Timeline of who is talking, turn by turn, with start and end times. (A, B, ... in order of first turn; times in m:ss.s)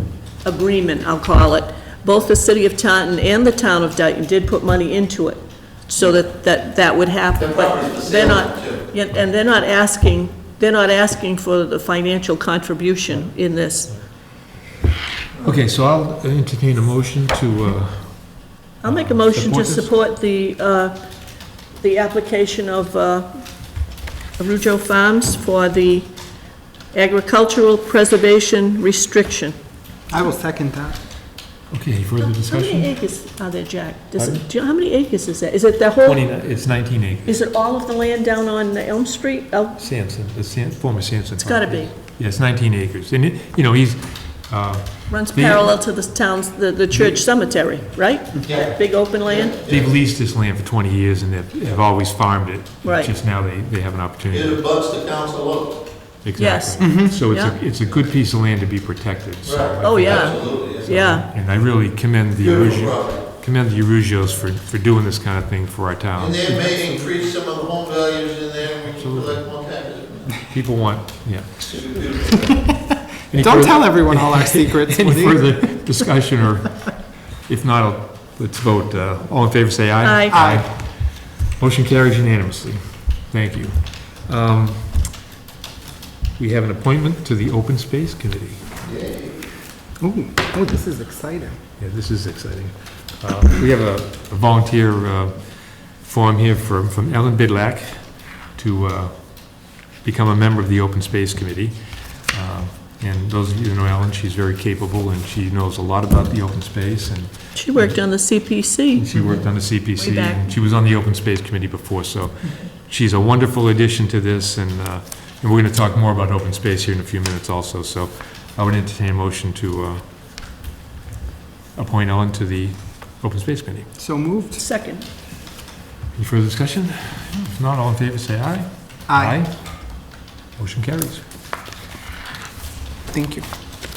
0:00.4-0:14.0 A
0:07.4-0:08.9 B
0:15.4-0:19.9 C
0:18.8-0:21.0 A
0:21.8-0:23.8 A
0:24.4-0:26.1 A
0:26.9-0:29.6 A
0:30.1-0:31.0 D
0:31.7-0:33.0 C
0:32.2-0:36.4 A
0:34.2-0:34.4 C
0:36.0-0:37.4 C
0:37.3-0:39.8 A
0:39.8-0:45.8 C
0:41.4-0:41.9 A
0:45.1-0:49.6 A
0:48.4-0:48.7 B
0:49.3-0:50.0 B
0:49.7-0:54.6 C
0:52.8-0:53.1 A
0:54.3-0:55.9 B
0:56.2-1:07.1 C
0:56.4-0:57.6 A
0:56.8-0:57.2 D
0:59.4-1:01.2 B
0:59.8-1:01.3 A
1:02.4-1:03.3 B
1:06.2-1:10.4 B
1:08.9-1:09.6 C
1:10.5-1:12.0 C
1:11.7-1:12.7 B
1:13.3-1:25.2 C
1:13.4-1:16.0 D
1:20.0-1:20.4 A
1:20.3-1:20.7 D
1:26.4-1:28.8 C
1:28.8-1:29.4 B
1:30.0-1:31.6 D
1:31.8-2:00.0 C
1:47.5-1:49.1 A
1:49.2-1:49.4 D
1:49.8-1:50.4 A
2:01.8-2:03.9 C
2:04.0-2:04.6 D
2:04.6-2:05.1 A
2:06.1-2:10.0 C
2:09.1-2:09.4 D
2:10.6-2:11.2 C
2:13.1-2:13.4 D